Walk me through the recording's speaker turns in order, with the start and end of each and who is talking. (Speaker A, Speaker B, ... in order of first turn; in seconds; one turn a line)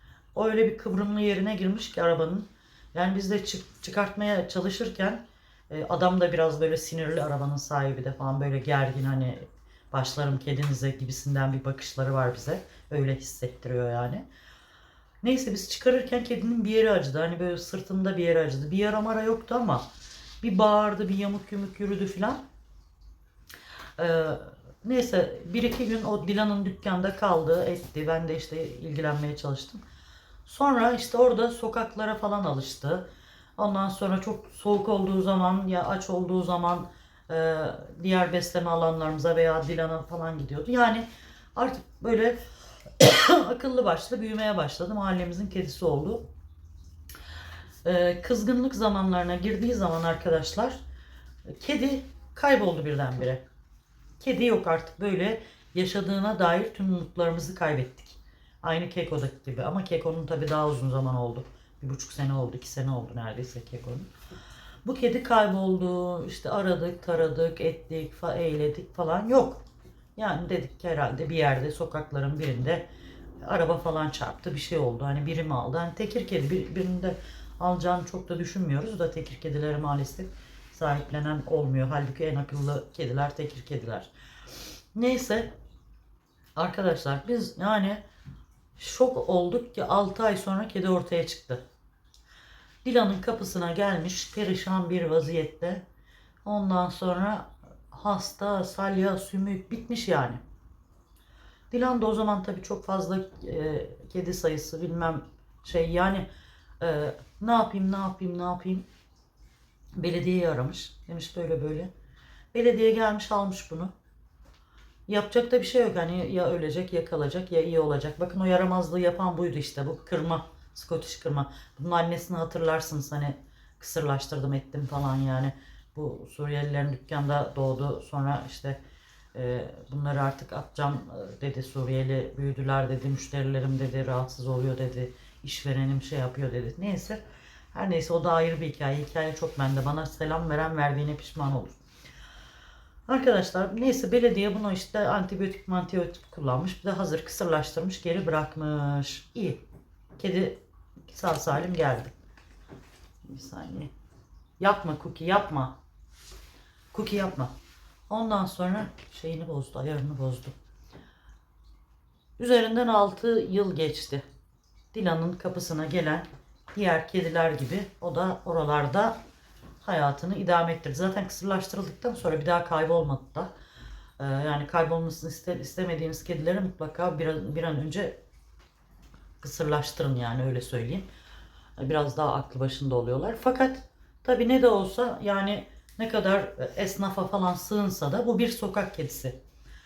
Speaker A: 0.3-14.2
Speaker A: 15.2-19.9
Speaker A: 20.4-22.4
Speaker A: 24.0-29.8
Speaker A: 30.4-42.4
Speaker A: 43.0-46.2
Speaker A: 47.8-50.8
Speaker A: 51.5-53.4
Speaker A: 54.2-64.1
Speaker A: 64.8-69.6
Speaker A: 70.2-72.8
Speaker A: 73.4-84.1
Speaker A: 84.9-85.5
Speaker A: 86.5-88.0
Speaker A: 88.8-91.6
Speaker A: 92.8-95.8
Speaker A: 96.4-100.4
Speaker A: 101.7-106.3
Speaker A: 106.8-108.8
Speaker A: 110.0-111.9
Speaker A: 112.5-113.9
Speaker A: 115.1-128.8
Speaker A: 129.3-137.2
Speaker A: 137.7-141.8
Speaker A: 143.1-149.6
Speaker A: 150.2-152.1
Speaker A: 153.3-153.9
Speaker A: 154.6-155.8
Speaker A: 156.9-157.5
Speaker A: 158.1-160.5
Speaker A: 162.4-164.2
Speaker A: 164.9-169.2
Speaker A: 169.8-173.5
Speaker A: 174.2-178.2
Speaker A: 179.4-181.1
Speaker A: 181.8-189.4